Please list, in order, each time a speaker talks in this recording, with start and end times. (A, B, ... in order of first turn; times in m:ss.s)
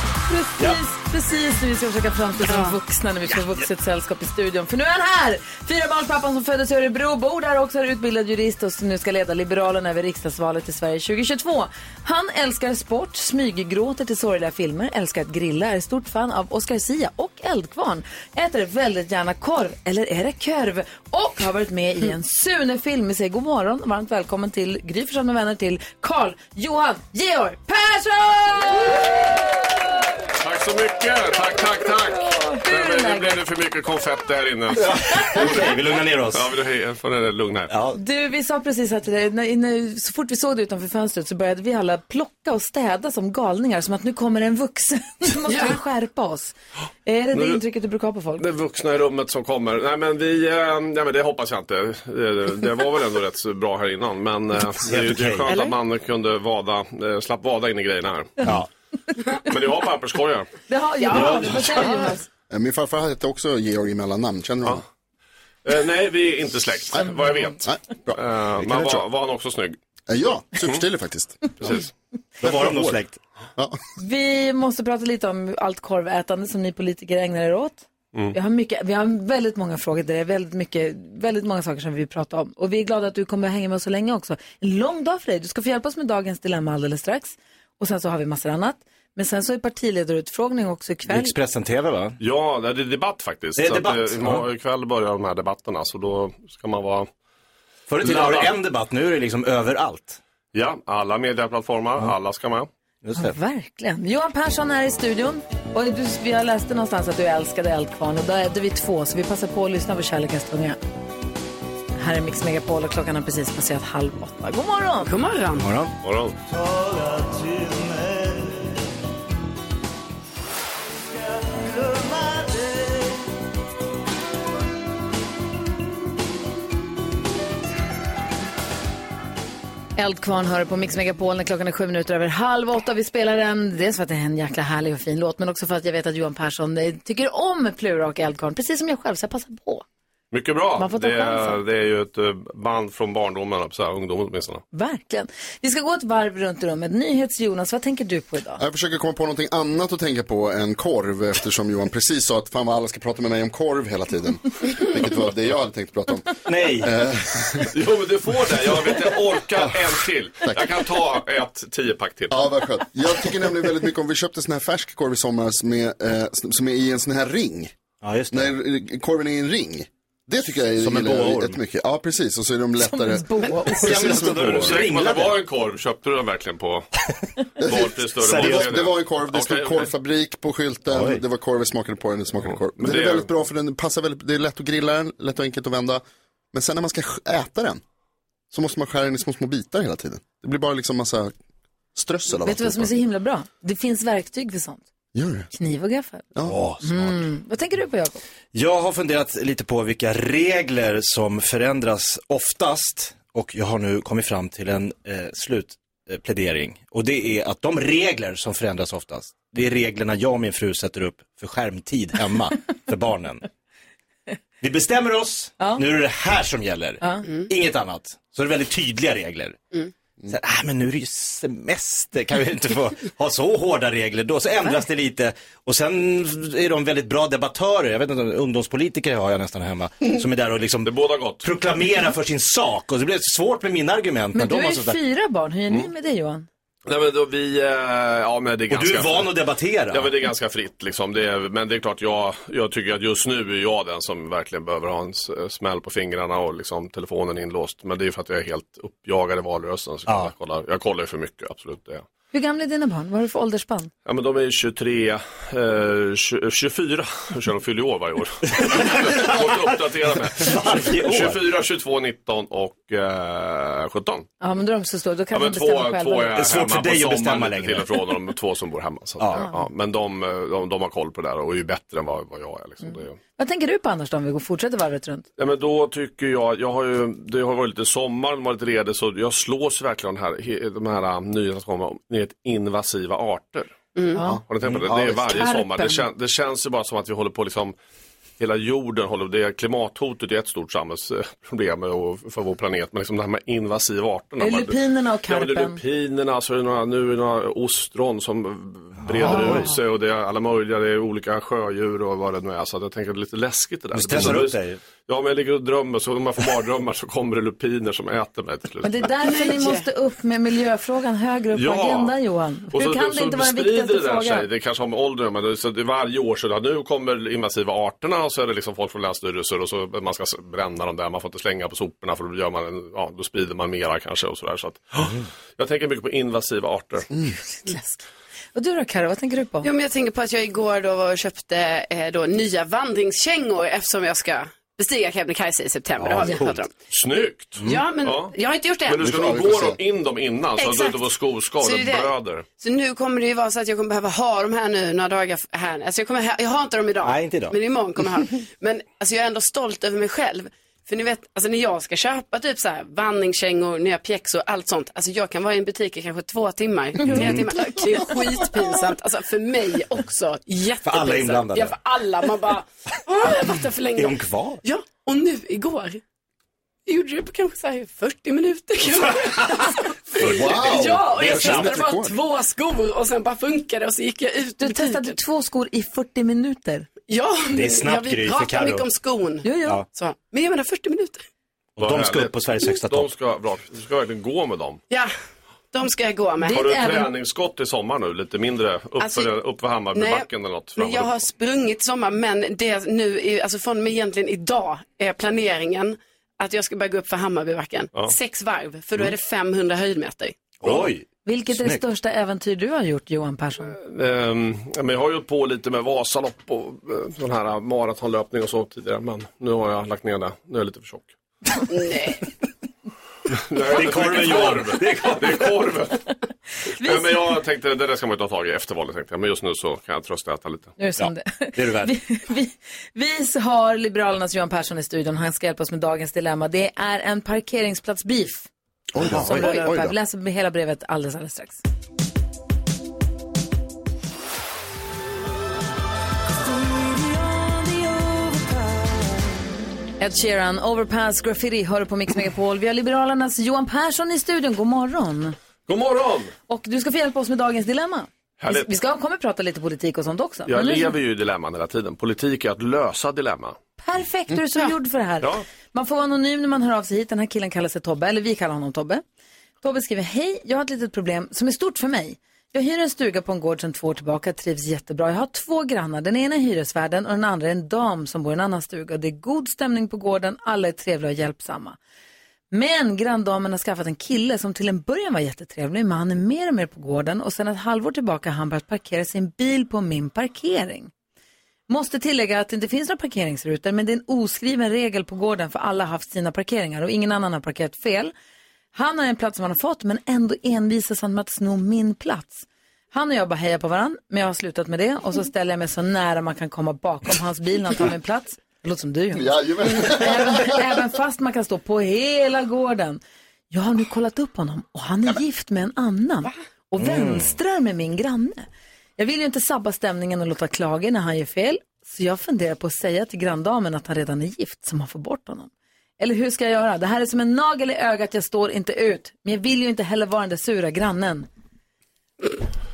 0:00.3-0:29.6 A
0:02.4-0:02.8 B
0:30.4-0:35.7 C
0:31.6-0:33.4 A
0:34.8-0:36.5 D
0:36.3-0:37.7 C
0:37.7-0:38.0 D
0:37.9-0:46.5 A
0:45.4-0:45.8 B
0:47.0-0:48.4 A
0:47.3-0:47.6 C
0:48.4-0:58.5 C
0:54.8-0:55.6 D
0:55.5-0:55.7 B
0:58.4-0:58.7 D
0:59.4-1:00.5 C
1:00.7-1:02.2 A
1:01.0-1:02.2 B
1:02.5-1:04.8 E
1:05.6-1:07.6 C
1:07.0-1:07.5 A
1:07.6-1:09.0 E
1:08.1-1:09.8 C
1:10.1-1:11.8 E
1:11.6-1:11.9 C
1:12.4-1:13.2 D
1:12.4-1:13.0 E
1:14.0-1:31.3 A
1:31.1-1:32.2 D
1:32.2-1:37.1 C
1:33.6-1:34.4 D
1:37.9-1:40.2 D
1:38.0-1:38.5 C
1:40.5-1:42.7 C
1:43.0-1:43.4 D
1:43.2-1:50.8 A
1:52.0-1:55.1 A
1:55.0-1:55.7 B
1:55.6-1:55.9 D
1:56.0-1:56.3 C
1:56.5-1:58.3 D
2:01.9-2:02.4 D
2:10.0-2:19.8 A
2:20.3-2:24.6 C
2:20.8-2:21.6 A
2:24.7-2:28.6 A
2:28.6-2:37.7 E
2:36.5-2:36.9 D
2:37.7-2:42.4 C
2:40.4-2:40.7 E
2:42.3-2:47.7 E
2:48.0-2:48.5 D
2:48.3-2:54.8 E
2:50.8-2:51.6 D
2:52.8-2:54.2 A
2:53.8-2:55.4 D
2:54.3-2:56.9 C
2:57.6-3:07.8 E
2:57.6-2:59.9 C
2:58.2-2:58.8 D
3:00.9-3:01.2 D
3:02.4-3:03.3 C
3:08.5-3:11.3 E
3:11.9-3:12.9 E
3:12.4-3:14.8 A
3:15.1-3:15.5 E
3:15.5-3:16.2 A
3:16.4-3:17.2 D
3:16.8-3:18.2 A
3:18.5-3:33.4 D
3:34.6-3:39.6 D
3:37.0-3:37.2 A
3:40.3-3:55.0 D
3:50.8-3:51.4 C
3:54.3-3:56.5 A
3:56.8-3:59.3 C
3:58.7-4:00.1 D
3:59.9-4:12.0 C
4:10.0-4:10.3 D
4:12.3-4:13.9 A
4:14.0-4:24.3 C
4:18.5-4:19.8 D
4:20.3-4:21.4 D
4:24.4-4:26.4 A
4:25.3-4:33.2 C
4:26.3-4:28.0 D
4:29.2-4:29.5 D
4:29.4-4:29.6 A
4:32.8-4:35.2 A
4:35.4-4:43.7 C
4:43.9-4:44.2 B
4:44.2-4:44.4 A
4:44.2-4:45.2 E
4:44.4-4:47.8 C
4:45.3-4:46.0 A
4:48.4-5:09.1 C
4:54.4-4:55.8 A
4:59.0-4:59.7 D
4:59.2-4:59.7 A
5:03.9-5:04.8 D
5:08.8-5:14.5 A
5:09.2-5:09.9 B
5:11.5-5:12.1 C
5:12.7-5:27.0 C
5:27.4-5:28.0 A
5:28.5-5:29.7 A
5:29.6-5:36.7 B
5:36.0-5:36.6 D
5:36.9-5:38.3 C
5:37.6-5:39.0 B
5:38.8-5:42.4 C
5:39.0-5:39.8 E
5:40.6-6:06.0 B
5:47.0-5:47.5 D
5:57.0-5:57.8 D
6:00.8-6:01.8 D
6:03.3-6:04.6 D
6:06.9-6:15.2 B
6:10.2-6:12.1 E
6:10.2-6:12.0 D
6:14.6-6:16.9 A
6:17.1-6:21.2 B
6:17.5-6:18.9 D
6:19.4-6:19.8 A
6:21.8-6:24.8 C
6:21.8-6:23.1 D
6:25.7-6:27.0 B
6:26.4-6:27.1 A
6:26.5-6:31.2 C
6:29.0-6:29.3 B
6:29.9-6:40.5 B
6:40.6-6:41.8 D
6:41.2-6:43.8 A
6:43.8-6:51.1 C
6:51.7-6:52.2 B
6:53.5-6:56.0 C
6:53.6-6:55.6 D
6:56.8-6:57.3 A
6:56.8-7:00.7 C
7:00.8-7:08.5 A
7:01.0-7:01.9 D
7:08.9-7:09.9 E
7:09.0-7:09.7 D
7:09.2-7:11.6 A
7:20.0-7:25.4 A
7:25.7-7:26.3 C
7:26.5-7:31.0 A
7:28.4-7:28.7 C
7:30.5-7:33.6 C
7:33.8-7:39.0 A
7:39.6-7:51.8 A
7:52.5-8:00.9 A
8:01.7-8:08.1 A
8:08.7-8:28.5 A
8:19.1-8:20.6 E
8:26.8-8:27.3 D
8:29.0-8:41.3 A